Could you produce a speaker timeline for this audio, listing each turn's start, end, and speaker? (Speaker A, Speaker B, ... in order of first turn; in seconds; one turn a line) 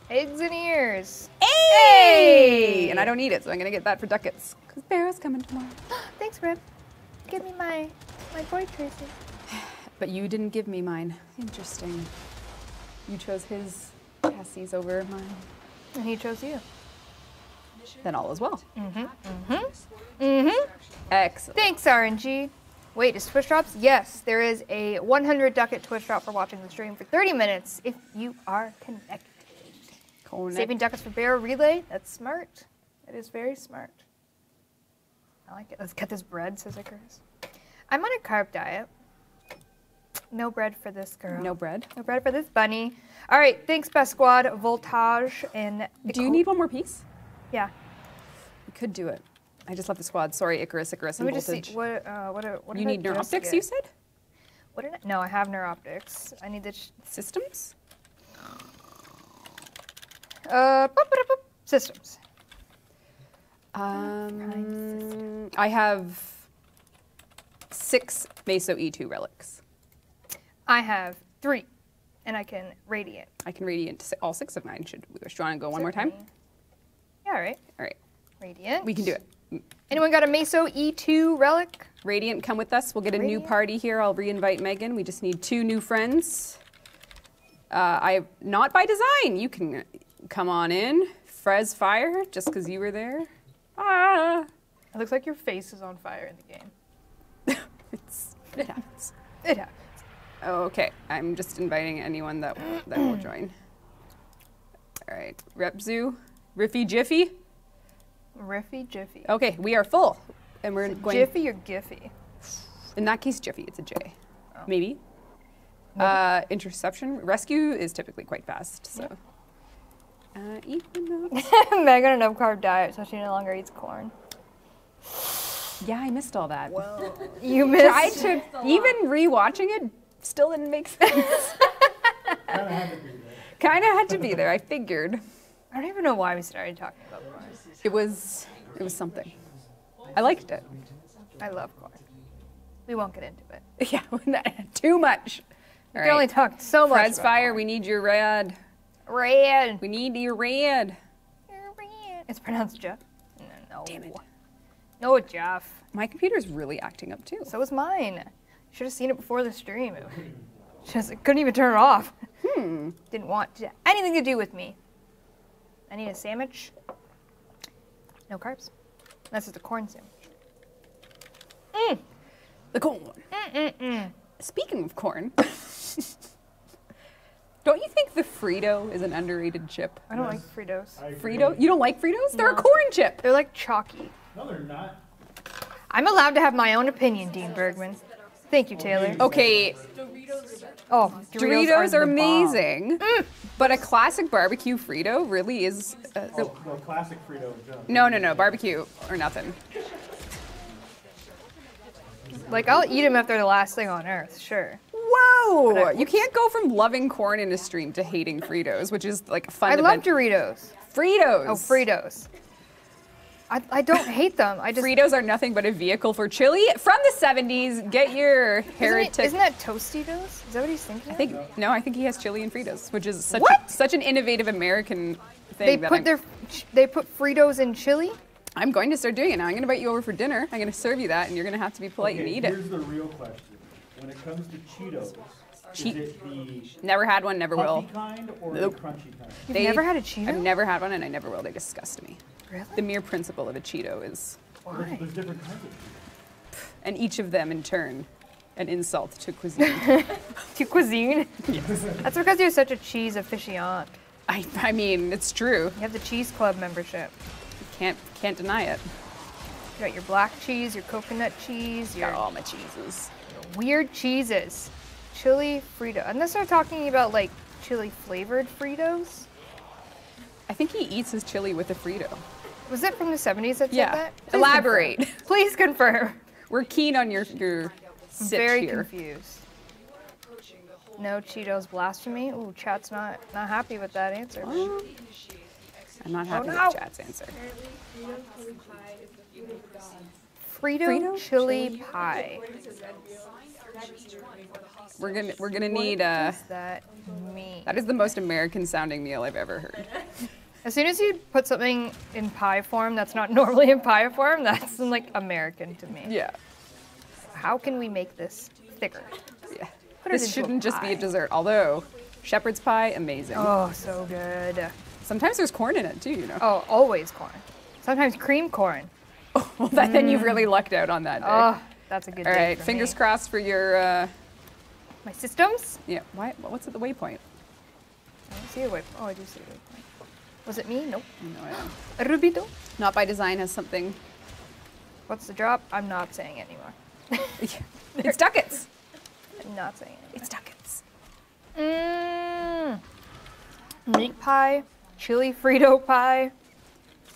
Speaker A: 0.1-3.1
Speaker B: 1.4-5.8
Speaker A: 5.9-6.6
Speaker A: 7.3-9.1
Speaker B: 9.5-12.1
Speaker B: 13.1-15.5
Speaker A: 15.9-16.6
Speaker B: 18.0-18.6
Speaker A: 18.8-20.7
Speaker B: 21.1-21.7
Speaker A: 21.5-29.9
Speaker B: 30.2-30.8
Speaker A: 30.5-34.0
Speaker A: 35.5-37.2
Speaker A: 37.9-38.9
Speaker A: 40.3-46.5
Speaker B: 41.3-41.9
Speaker B: 46.0-47.0
Speaker B: 48.7-51.8
Speaker A: 51.2-53.6
Speaker B: 52.7-53.9
Speaker A: 54.7-56.9
Speaker B: 57.1-57.7
Speaker A: 60.5-62.2
Speaker B: 63.7-66.5
Speaker A: 63.9-65.2
Speaker B: 67.7-69.6
Speaker A: 70.7-71.7
Speaker A: 72.2-73.3
Speaker B: 73.4-76.2
Speaker A: 75.7-76.2
Speaker A: 77.2-77.6
Speaker A: 78.4-79.1
Speaker B: 78.8-79.7
Speaker A: 79.9-81.9
Speaker B: 82.0-86.6
Speaker A: 83.1-83.5
Speaker B: 87.7-94.5
Speaker A: 94.9-96.7
Speaker B: 97.5-99.1
Speaker A: 99.4-99.7
Speaker B: 100.4-103.5
Speaker B: 105.0-107.4
Speaker A: 108.3-109.3
Speaker B: 109.2-111.4
Speaker A: 110.8-112.1
Speaker B: 113.0-115.0
Speaker B: 116.0-119.2
Speaker B: 120.3-121.5
Speaker A: 121.3-124.1
Speaker B: 125.8-126.9
Speaker A: 127.1-128.4
Speaker B: 127.5-131.7
Speaker C: 132.4-133.6
Speaker B: 133.5-135.2
Speaker A: 135.7-137.6
Speaker B: 137.8-139.4
Speaker C: 138.6-142.3
Speaker B: 140.1-140.7
Speaker A: 141.4-142.0
Speaker A: 142.8-143.6
Speaker B: 143.8-148.6
Speaker A: 145.9-147.7
Speaker A: 149.1-149.8
Speaker B: 149.8-151.0
Speaker A: 151.5-154.2
Speaker B: 153.9-154.2
Speaker A: 155.0-155.8
Speaker B: 155.9-157.5
Speaker A: 157.4-160.2
Speaker C: 160.0-160.5
Speaker A: 160.8-162.2
Speaker B: 162.4-163.0
Speaker A: 163.1-164.8
Speaker A: 165.9-166.7
Speaker A: 168.3-168.7
Speaker A: 169.3-170.1
Speaker A: 171.7-172.0
Speaker B: 172.7-173.2
Speaker A: 173.3-174.1
Speaker B: 174.4-176.1
Speaker B: 177.6-180.1
Speaker A: 180.1-181.0
Speaker C: 180.1-181.9
Speaker B: 181.1-183.2
Speaker A: 182.3-184.1
Speaker C: 184.3-185.0
Speaker A: 185.9-189.3
Speaker C: 188.7-190.8
Speaker B: 189.2-189.8
Speaker A: 190.9-193.3
Speaker B: 191.2-196.6
Speaker C: 196.3-198.6
Speaker B: 197.9-199.6
Speaker C: 202.1-203.1
Speaker A: 202.5-204.8
Speaker B: 204.9-210.1
Speaker A: 205.7-206.3
Speaker A: 209.6-210.7
Speaker B: 210.9-211.8
Speaker A: 211.4-212.3
Speaker A: 213.5-215.0
Speaker B: 214.7-219.4
Speaker A: 218.8-221.3
Speaker B: 221.1-226.2
Speaker C: 221.2-221.6
Speaker A: 223.3-223.6
Speaker A: 225.6-228.2
Speaker B: 228.6-232.6
Speaker C: 232.0-236.8
Speaker B: 235.7-236.2
Speaker B: 236.7-237.9
Speaker C: 237.5-239.5
Speaker B: 238.5-238.8
Speaker A: 239.5-240.5
Speaker B: 239.5-242.2
Speaker A: 242.5-242.7
Speaker B: 242.7-244.5
Speaker A: 244.6-245.1
Speaker C: 244.7-246.0
Speaker B: 246.7-250.2
Speaker A: 249.6-254.0
Speaker B: 251.5-251.9
Speaker C: 251.7-252.0
Speaker B: 254.3-255.8
Speaker A: 255.8-257.1
Speaker B: 257.6-258.9
Speaker A: 259.8-262.2
Speaker B: 262.0-263.1
Speaker A: 263.3-269.3
Speaker B: 270.5-272.2
Speaker A: 272.7-276.2
Speaker B: 273.7-275.2
Speaker B: 276.5-278.9
Speaker A: 278.2-279.4
Speaker A: 281.0-284.7
Speaker B: 284.4-284.9
Speaker B: 286.0-287.4
Speaker A: 286.3-286.8
Speaker A: 290.5-292.4
Speaker B: 290.8-291.8
Speaker B: 294.9-296.4
Speaker A: 295.4-297.8
Speaker B: 297.6-299.9
Speaker A: 300.6-306.1
Speaker B: 306.0-306.4
Speaker A: 307.3-309.2
Speaker B: 309.5-313.6
Speaker A: 310.0-311.1
Speaker A: 313.3-314.7
Speaker B: 315.0-316.4
Speaker A: 316.4-318.9
Speaker B: 319.3-321.5
Speaker A: 319.7-320.5
Speaker A: 321.2-323.0
Speaker B: 322.2-324.1
Speaker A: 325.0-325.8
Speaker B: 325.9-327.2
Speaker A: 328.3-329.8
Speaker A: 330.4-331.1
Speaker B: 331.2-331.7
Speaker A: 331.9-332.5
Speaker B: 332.8-334.0
Speaker A: 335.1-337.4
Speaker B: 337.4-338.7
Speaker A: 337.9-338.2
Speaker A: 339.4-340.3
Speaker B: 340.1-340.8
Speaker A: 341.5-342.8
Speaker A: 343.9-346.3